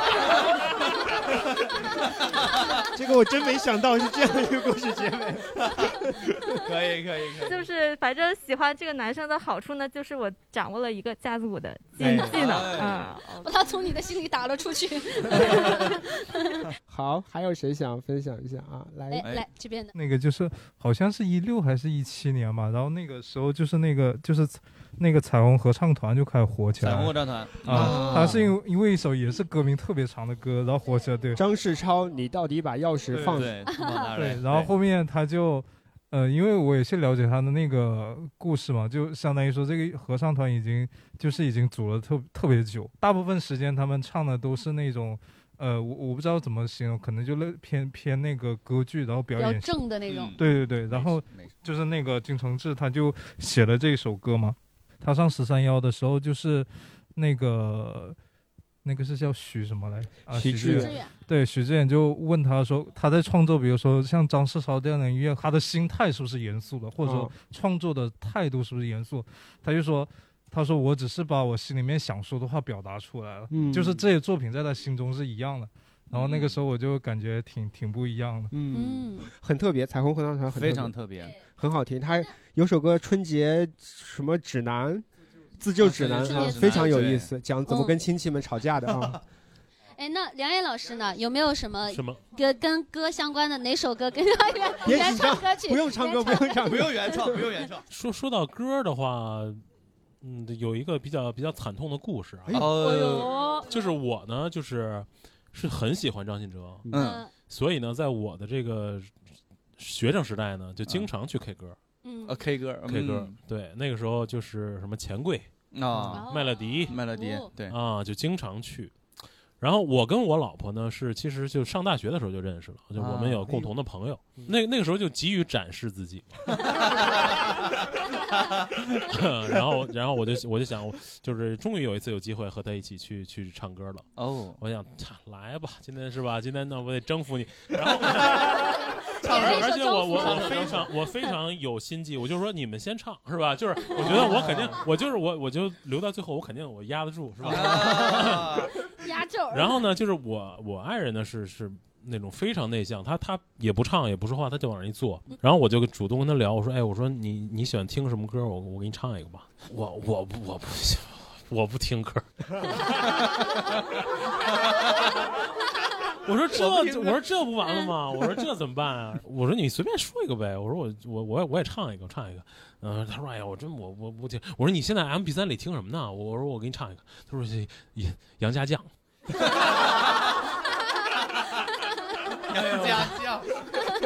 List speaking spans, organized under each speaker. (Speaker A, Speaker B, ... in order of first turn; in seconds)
Speaker A: 2.3-2.6, 5.6-5.9, 6.5-7.6, 12.0-13.1, 26.8-28.3, 33.2-34.7, 50.1-51.5, 76.1-76.6, 80.5-81.4, 85.8-87.3, 88.9-89.2, 96.6-97.8, 102.5-103.3, 106.9-107.2, 112.3-113.4, 115.7-116.2, 116.9-117.8, 123.0-123.5, 134.2-134.6, 139.2-140.9, 144.0-144.8, 147.4-148.7, 166.5-167.2, 182.5-183.6
Speaker B: 2.9-6.4, 12.0-12.4, 16.9-19.3, 27.7-28.5, 31.4-33.5, 60.3-61.0, 67.0-67.3, 73.5-74.0, 78.5-80.9, 81.5-85.1, 85.6-89.2, 94.8-97.4, 102.5-102.7
Speaker C: 7.4-13.6
Speaker D: 13.4-16.6, 19.1-19.9, 27.7-28.3, 33.7-34.1, 49.4-50.4, 60.6-61.1, 78.7-79.3, 86.2-87.0, 87.7-88.0, 90.0-96.7, 102.8-103.7, 107.0-107.3, 112.0-112.4, 116.1-117.5, 139.2-140.8, 149.0-149.8
Speaker E: 19.9-31.4, 34.1-49.8, 50.4-58.2, 58.8-78.5
Speaker F: 91.9-92.2, 97.9-99.6, 100.2-103.0, 103.7-109.1, 109.8-111.8, 112.9-115.5, 116.2-117.0, 117.7-118.9, 119.6-126.6, 129.0-134.1, 134.6-148.7, 149.5-163.3, 166.2-178.9, 182.6-183.1